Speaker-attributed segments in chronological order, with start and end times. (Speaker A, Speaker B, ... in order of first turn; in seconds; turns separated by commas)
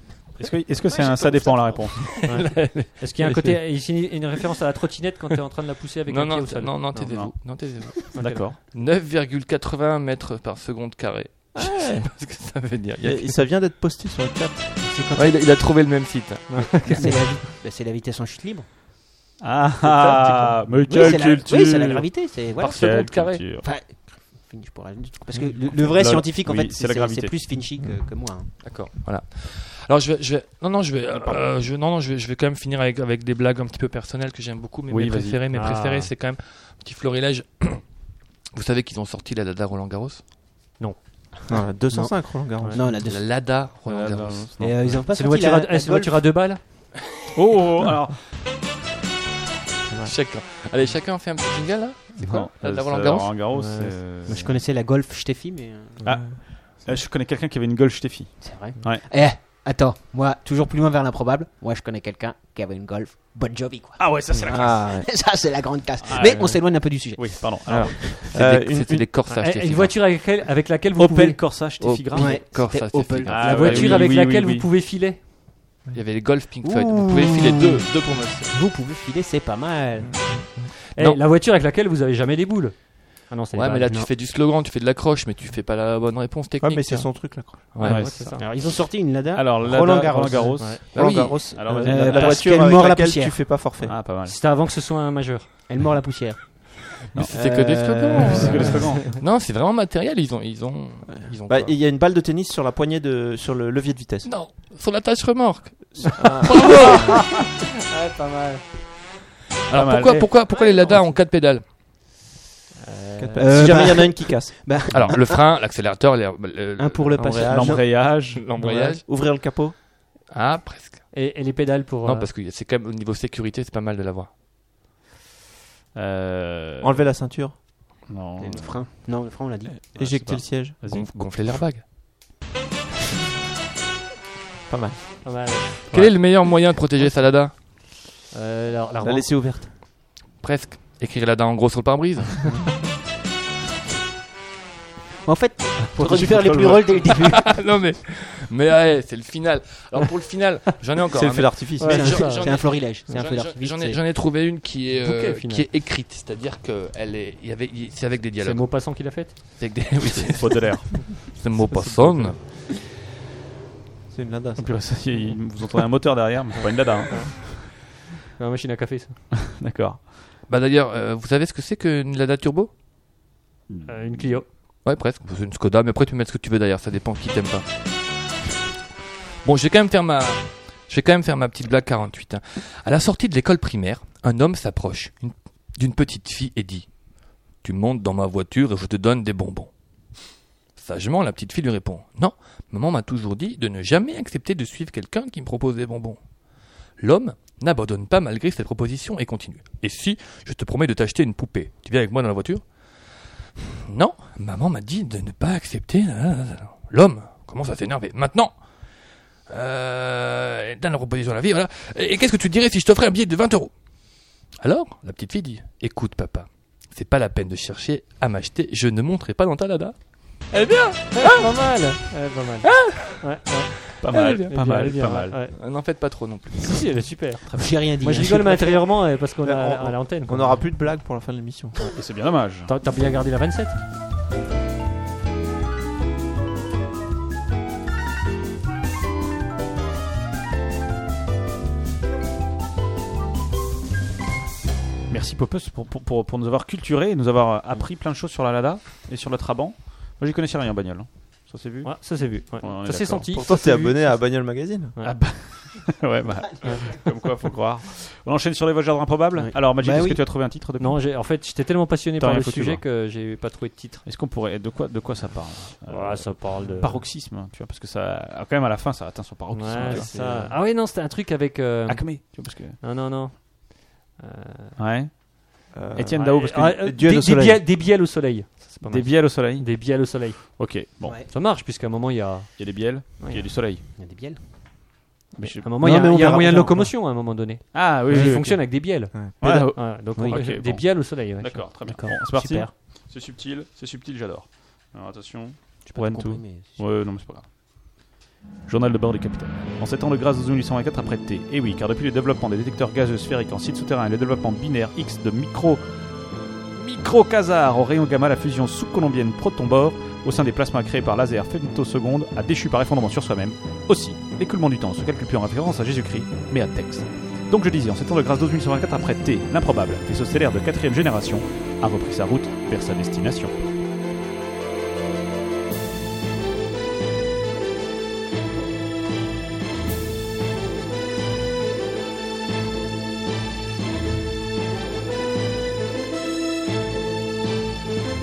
Speaker A: 0.4-2.1, Speaker B: 0.9-2.2, Speaker C: 2.0-3.6, Speaker D: 2.2-7.2, Speaker C: 6.1-13.4, Speaker A: 7.0-7.3, Speaker A: 8.0-8.6, Speaker D: 8.1-8.5, Speaker E: 13.0-14.8, Speaker B: 14.8-15.4, Speaker C: 15.1-17.3, Speaker D: 16.5-17.2, Speaker B: 16.9-18.7, Speaker A: 19.4-23.6, Speaker C: 19.8-20.6, Speaker B: 20.9-22.9, Speaker C: 22.6-23.5, Speaker B: 23.5-28.5, Speaker A: 25.7-27.4, Speaker E: 27.8-28.0, Speaker C: 28.6-37.8, Speaker A: 34.9-35.4, Speaker D: 35.5-36.1, Speaker C: 38.5-40.2, Speaker E: 41.5-42.9, Speaker B: 42.7-43.2, Speaker C: 43.0-44.5, Speaker A: 43.9-44.9, Speaker B: 44.6-46.2, Speaker D: 45.1-46.6, Speaker A: 47.3-48.2, Speaker C: 50.0-53.5, Speaker A: 52.1-54.5, Speaker D: 53.5-54.0, Speaker B: 54.3-56.0, Speaker A: 56.0-59.1, Speaker B: 58.4-68.2, Speaker A: 64.0-64.9, Speaker E: 64.5-65.1, Speaker A: 66.0-68.2, Speaker D: 66.2-66.5, Speaker E: 67.7-69.1, Speaker C: 68.3-70.2, Speaker D: 69.3-71.4, Speaker A: 71.0-72.4, Speaker C: 71.7-73.6, Speaker B: 72.1-74.1, Speaker A: 73.3-74.7, Speaker D: 73.4-75.2, Speaker C: 75.9-78.5, Speaker B: 76.6-80.3, Speaker E: 80.0-80.7, Speaker D: 80.9-83.9, Speaker C: 81.0-81.2, Speaker C: 83.5-88.3, Speaker E: 86.6-87.7, Speaker A: 87.8-88.4, Speaker D: 87.8-88.4, Speaker B: 88.4-93.4, Speaker A: 89.3-90.9, Speaker C: 90.9-91.5, Speaker E: 90.9-93.9, Speaker A: 91.5-92.3, Speaker A: 93.8-94.3, Speaker D: 94.2-95.5, Speaker B: 95.7-99.1, Speaker C: 97.2-101.8, Speaker A: 98.2-99.1, Speaker E: 101.1-104.3, Speaker C: 104.2-107.4, Speaker B: 106.2-107.1, Speaker D: 107.8-108.6, Speaker C: 109.7-111.7, Speaker A: 109.7-110.3, Speaker B: 110.6-110.9, Speaker D: 112.8-113.8, Speaker E: 113.2-114.8, Speaker B: 113.4-115.5, Speaker C: 114.9-119.0, Speaker B: 116.8-117.8, Speaker E: 117.2-117.8, Speaker A: 117.4-118.4, Speaker E: 118.6-119.7, Speaker C: 120.3-121.1, Speaker D: 121.1-122.3, Speaker C: 122.0-124.3, Speaker A: 125.9-127.1, Speaker E: 126.8-127.6, Speaker A: 128.1-129.1, Speaker B: 128.4-129.7, Speaker A: 129.7-131.6, Speaker E: 129.9-130.8, Speaker C: 130.8-131.9, Speaker E: 134.7-135.3, Speaker D: 135.2-136.1, Speaker C: 135.8-137.5, Speaker D: 138.3-139.4, Speaker E: 139.0-139.7, Speaker C: 140.4-142.6, Speaker E: 142.4-142.9, Speaker B: 145.2-147.5, Speaker A: 145.9-146.8, Speaker C: 147.1-162.4, Speaker E: 151.1-152.2, Speaker D: 151.8-152.5, Speaker B: 151.8-154.0, Speaker D: 155.0-155.7, Speaker D: 158.4-159.3, Speaker A: 160.3-161.2, Speaker E: 161.6-162.4, Speaker E: 164.1-164.9, Speaker A: 164.6-167.7, Speaker D: 168.4-169.2, Speaker A: 169.5-170.1, Speaker C: 170.5-172.7, Speaker A: 173.7-174.4, Speaker D: 173.9-174.4, Speaker C: 174.8-177.7, Speaker C: 179.4-186.9, Speaker C: 187.6-189.7, Speaker C: 190.7-196.2, Speaker C: 197.0-202.6, Speaker C: 203.8-208.5, Speaker C: 209.5-213.7, Speaker C: 214.6-221.5, Speaker D: 221.1-223.7, Speaker C: 222.6-223.3, Speaker A: 224.0-225.4, Speaker C: 224.0-224.9, Speaker D: 224.5-225.5, Speaker C: 225.5-226.8, Speaker D: 226.6-227.4, Speaker B: 227.5-228.9, Speaker D: 228.0-230.6, Speaker E: 229.4-231.8, Speaker A: 231.9-232.7, Speaker D: 232.7-233.8, Speaker A: 245.1-253.3, Speaker D: 251.8-254.2, Speaker E: 253.3-254.9, Speaker A: 255.0-261.0, Speaker B: 259.4-260.2, Speaker D: 260.8-264.0, Speaker A: 262.2-262.8, Speaker A: 264.0-270.1, Speaker D: 265.9-267.1, Speaker D: 269.5-274.8, Speaker E: 269.9-270.6, Speaker A: 271.9-272.8, Speaker A: 274.8-275.1, Speaker E: 275.7-277.6, Speaker A: 275.9-276.9, Speaker D: 276.2-283.4, Speaker A: 278.8-279.7, Speaker A: 280.6-281.1, Speaker A: 282.6-283.8, Speaker B: 284.0-284.4, Speaker A: 285.4-285.7, Speaker D: 285.4-292.1, Speaker B: 285.8-286.9, Speaker A: 287.7-288.6, Speaker E: 289.1-289.4, Speaker A: 289.4-297.4, Speaker B: 292.1-292.7, Speaker B: 295.9-296.8, Speaker A: 298.7-305.8, Speaker A: 306.7-323.5